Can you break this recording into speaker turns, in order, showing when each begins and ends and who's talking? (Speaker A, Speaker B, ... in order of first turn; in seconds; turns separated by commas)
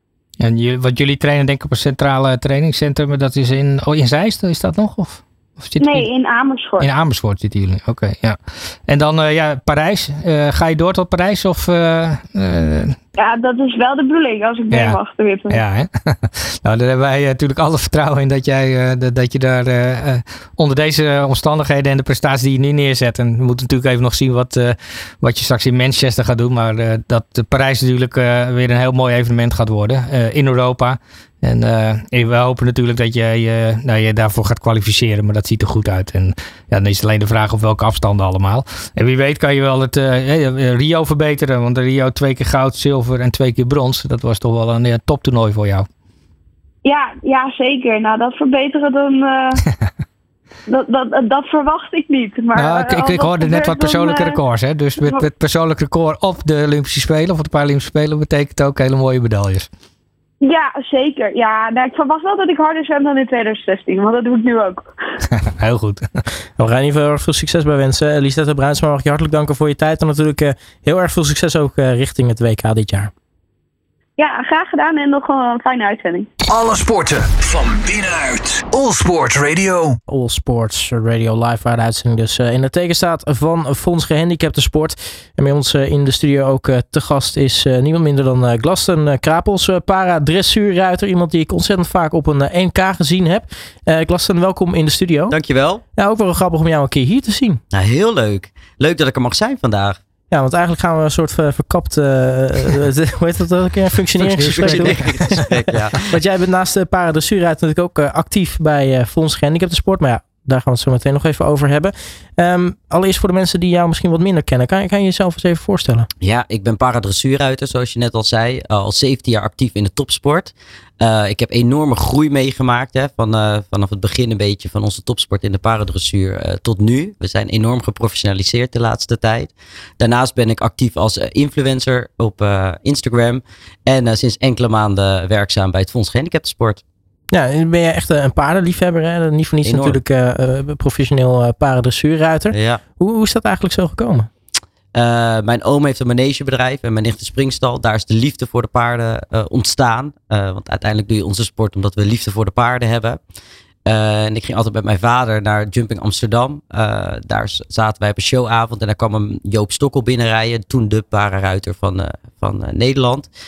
Speaker A: 0.4-6.1, Speaker B: 5.8-6.9, Speaker A: 6.8-12.9, Speaker B: 13.2-15.6, Speaker A: 14.7-15.0, Speaker A: 15.5-45.9, Speaker B: 46.8-49.6, Speaker B: 50.7-54.4, Speaker A: 52.5-59.7, Speaker B: 60.4-64.8, Speaker A: 65.5-66.1, Speaker C: 66.6-73.1, Speaker B: 74.2-76.3, Speaker D: 76.5-80.0, Speaker C: 80.1-95.3, Speaker E: 95.3-95.8, Speaker C: 95.9-97.6, Speaker E: 97.7-100.0, Speaker C: 100.3-105.3, Speaker E: 104.3-106.1, Speaker A: 104.4-105.4, Speaker C: 106.1-116.1, Speaker E: 116.2-136.8, Speaker C: 137.3-144.3, Speaker E: 139.6-140.0, Speaker E: 142.5-142.8, Speaker E: 144.9-153.2, Speaker E: 153.8-163.3